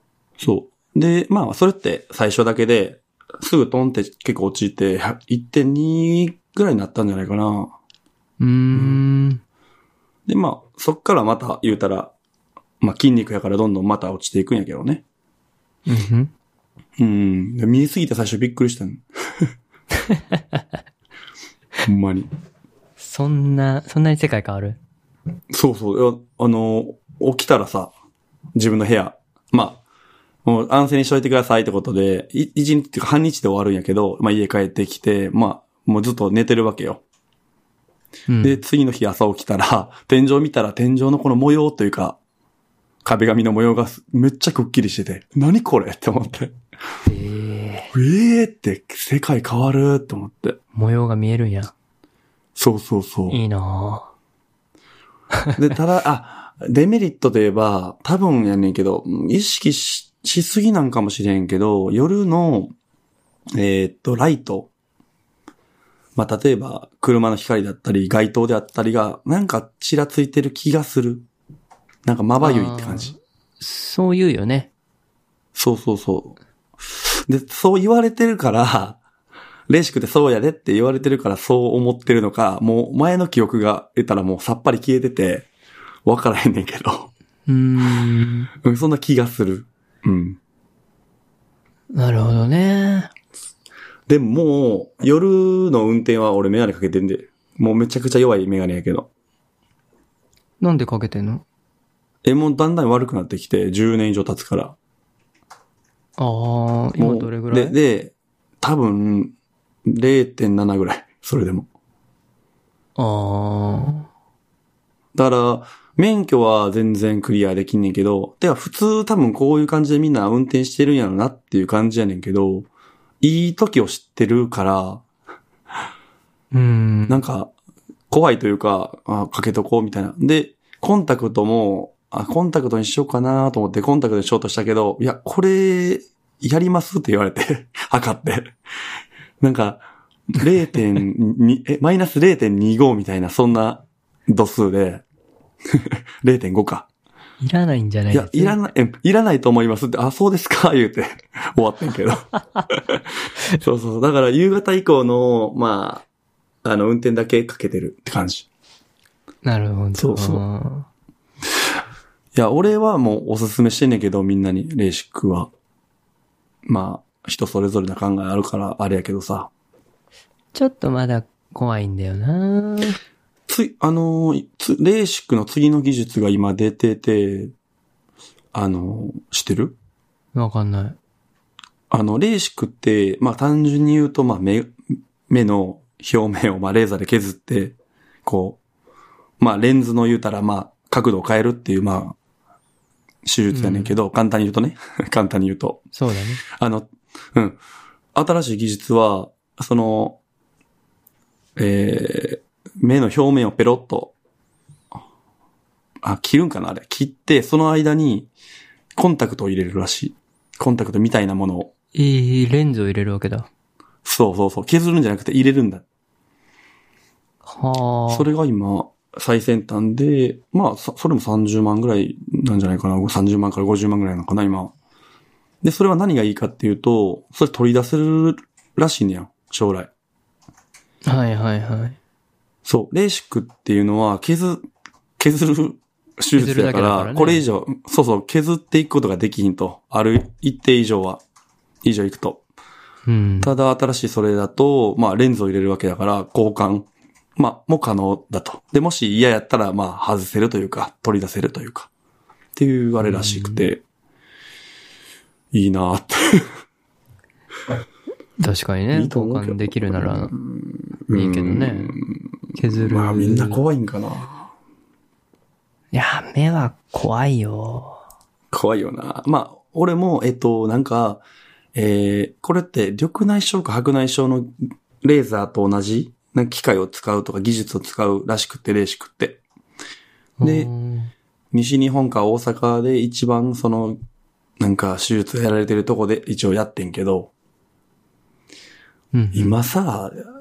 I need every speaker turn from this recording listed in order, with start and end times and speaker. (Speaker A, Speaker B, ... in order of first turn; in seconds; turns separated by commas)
Speaker A: 0.4-7.7, Speaker B: 8.4-9.4, Speaker A: 8.7-9.0, Speaker A: 10.3-12.1, Speaker A: 12.8-15.0, Speaker B: 15.8-16.3, Speaker A: 17.0-19.5, Speaker B: 20.1-20.4, Speaker A: 21.8-22.3, Speaker B: 23.0-24.8, Speaker A: 25.5-27.9, Speaker A: 28.5-29.8, Speaker A: 30.4-37.0, Speaker B: 38.3-38.6, Speaker A: 38.4-42.2, Speaker A: 43.0-46.5, Speaker B: 47.0-47.9, Speaker A: 47.9-50.6, Speaker B: 50.7-51.7, Speaker A: 52.5-53.4, Speaker B: 53.3-54.1, Speaker A: 55.5-62.7, Speaker A: 63.5-64.7, Speaker A: 66.2-71.2, Speaker A: 72.0-73.1, Speaker B: 72.4-74.7, Speaker A: 75.5-76.3, Speaker A: 77.3-79.0, Speaker A: 79.7-85.5, Speaker A: 86.0-87.1, Speaker B: 87.5-88.5, Speaker A: 88.6-90.4, Speaker B: 91.9-93.1, Speaker A: 94.1-99.1, Speaker B: 100.6-101.4, Speaker A: 102.2-104.8, Speaker B: 106.2-107.8, Speaker A: 107.0-109.3, Speaker A: 109.8-111.7, Speaker B: 113.0-114.1, Speaker A: 115.1-122.7, Speaker A: 123.2-125.0, Speaker B: 126.5-127.2, Speaker A: 127.1-127.5, Speaker A: 128.1-138.5, Speaker A: 139.4-145.0, Speaker A: 145.7-146.8, Speaker B: 147.4-148.6, Speaker A: 148.1-153.0, Speaker A: 153.6-156.0, Speaker A: 156.6-158.5, Speaker B: 159.4-160.9, Speaker A: 160.0-160.4, Speaker A: 162.3-165.5, Speaker A: 166.7-169.5, Speaker B: 170.5-173.0, Speaker A: 173.5-177.5, Speaker A: 178.5-179.8, Speaker B: 180.3-181.0, Speaker A: 181.9-184.8, Speaker A: 185.3-188.6, Speaker A: 189.4-192.2, Speaker A: 193.2-195.8, Speaker B: 193.5-193.9, Speaker B: 195.9-196.4, Speaker A: 196.4-197.6, Speaker A: 198.1-200.2, Speaker A: 201.6-204.1, Speaker A: 206.0-208.3, Speaker A: 208.9-211.7, Speaker B: 211.9-213.5, Speaker A: 214.0-215.8, Speaker B: 217.4-218.3, Speaker A: 218.1-224.7, Speaker A: 225.6-229.9, Speaker B: 231.1-232.0, Speaker A: 232.6-234.7, Speaker A: 235.2-241.2, Speaker B: 236.3-237.4, Speaker A: 241.8-242.4, Speaker B: 243.1-243.5, Speaker A: 243.4-251.9, Speaker A: 252.5-253.8, Speaker B: 253.0-253.7, Speaker A: 255.5-256.5, Speaker B: 258.4-260.3, Speaker A: 258.9-264.5, Speaker B: 261.1-261.9, Speaker B: 262.5-263.6, Speaker B: 265.9-268.0, Speaker A: 268.5-271.2, Speaker A: 271.7-279.4, Speaker B: 280.4-281.1, Speaker A: 280.4-280.7, Speaker A: 281.5-284.0, Speaker A: 284.6-287.3, Speaker B: 289.1-289.6, Speaker A: 289.3-290.2